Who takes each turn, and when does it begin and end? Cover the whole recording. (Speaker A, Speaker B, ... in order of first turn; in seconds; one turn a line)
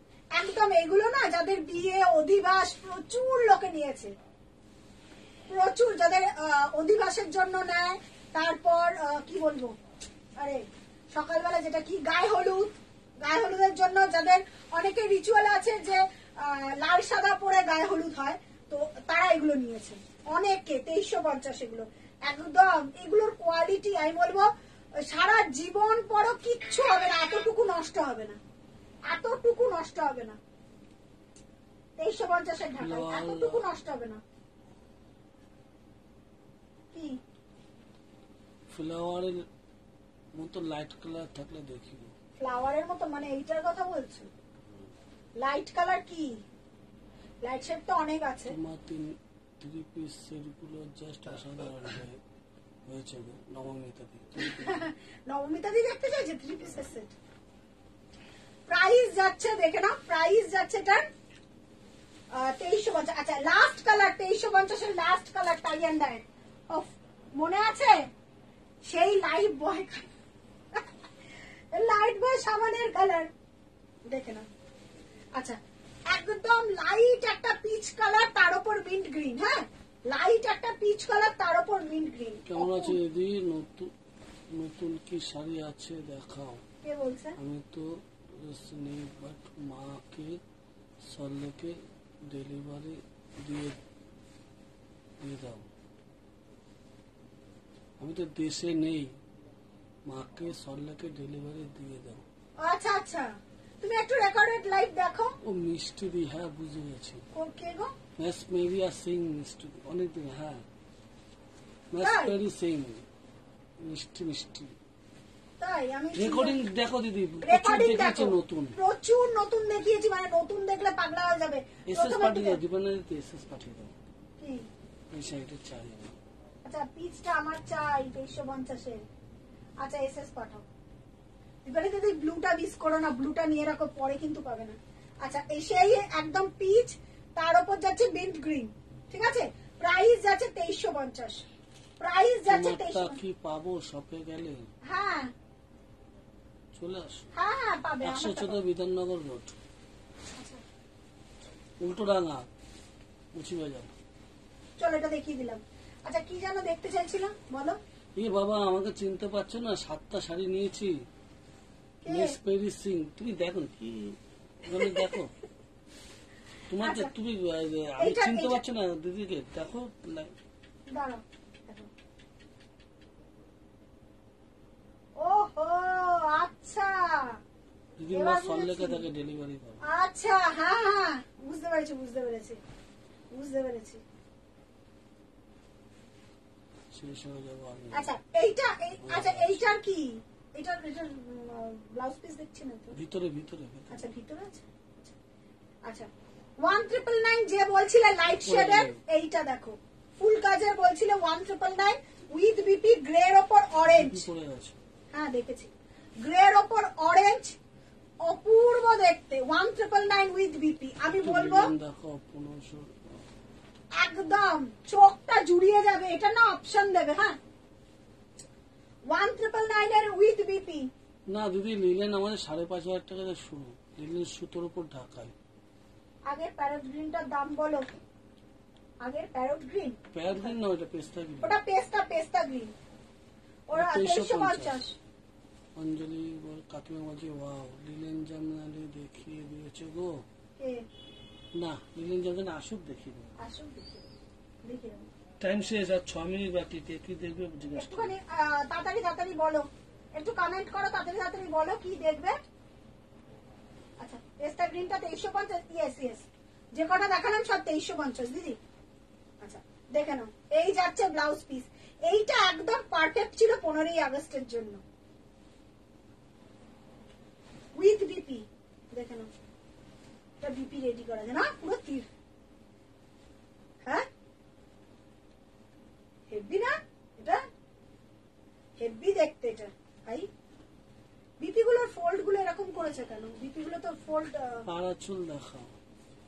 Speaker A: 0.3-4.1
Speaker A: 5.5-9.8
Speaker A: 10.4-28.4
Speaker A: 29.1-30.4
Speaker A: 32.0-34.2
Speaker B: 32.8-33.7
Speaker A: 36.9-37.2
Speaker B: 38.7-39.5
Speaker B: 40.3-42.1
Speaker A: 42.4-44.3
Speaker A: 45.4-46.4
Speaker A: 47.4-48.5
Speaker B: 48.5-52.2
Speaker B: 52.9-54.9
Speaker A: 54.4-57.1
Speaker A: 58.7-61.1
Speaker A: 62.3-68.1
Speaker A: 68.8-70.1
Speaker A: 71.7-73.3
Speaker A: 74.1-74.5
Speaker A: 75.3-83.0
Speaker B: 82.5-83.9
Speaker B: 84.5-86.6
Speaker A: 86.8-87.4
Speaker B: 87.4-90.4
Speaker B: 91.0-93.8
Speaker B: 95.2-95.7
Speaker B: 98.0-99.1
Speaker B: 100.0-102.2
Speaker A: 102.6-105.3
Speaker B: 105.4-107.2
Speaker A: 107.3-107.9
Speaker B: 108.2-110.6
Speaker B: 111.9-113.0
Speaker A: 112.0-112.3
Speaker B: 113.8-114.7
Speaker A: 115.6-116.6
Speaker B: 116.1-118.8
Speaker A: 117.4-122.6
Speaker B: 121.9-123.9
Speaker A: 124.4-124.7
Speaker B: 125.1-126.2
Speaker A: 126.6-129.1
Speaker A: 129.8-130.7
Speaker A: 131.7-141.4
Speaker A: 142.0-143.2
Speaker B: 142.5-144.7
Speaker A: 144.8-145.3
Speaker B: 146.7-147.3
Speaker A: 147.3-148.6
Speaker B: 148.0-149.6
Speaker A: 150.3-150.6
Speaker B: 151.8-152.5
Speaker B: 153.3-153.9
Speaker A: 154.8-157.8
Speaker B: 158.2-161.1
Speaker A: 162.0-162.4
Speaker B: 162.1-165.3
Speaker A: 164.7-165.1
Speaker B: 166.7-170.3
Speaker A: 166.8-167.1
Speaker A: 168.0-168.6
Speaker A: 170.9-171.9
Speaker A: 175.2-177.4
Speaker B: 178.0-179.8
Speaker A: 178.1-179.0
Speaker A: 179.8-182.6
Speaker A: 183.3-184.0
Speaker B: 186.9-188.1
Speaker A: 187.9-193.0
Speaker B: 189.0-189.7
Speaker B: 192.9-194.1
Speaker A: 193.9-194.6
Speaker A: 196.6-204.3
Speaker B: 198.4-199.0
Speaker B: 203.8-204.8
Speaker A: 205.1-205.7
Speaker A: 206.2-207.5
Speaker A: 208.2-211.7
Speaker B: 211.1-213.2
Speaker A: 213.9-217.4
Speaker A: 219.1-220.9
Speaker B: 221.3-225.3
Speaker A: 226.3-227.9
Speaker A: 229.0-230.5
Speaker B: 230.1-231.6
Speaker A: 231.4-232.7
Speaker A: 233.7-235.0
Speaker B: 233.7-234.8
Speaker B: 235.8-240.2
Speaker A: 240.6-240.8
Speaker B: 241.6-243.3
Speaker A: 243.4-244.1
Speaker A: 244.6-245.1
Speaker B: 245.4-248.1
Speaker A: 247.7-252.4
Speaker A: 254.0-258.6
Speaker A: 259.4-264.8
Speaker A: 267.7-269.3
Speaker A: 270.4-272.1
Speaker A: 276.3-277.4
Speaker A: 278.8-280.3
Speaker A: 281.4-284.7
Speaker B: 284.6-285.7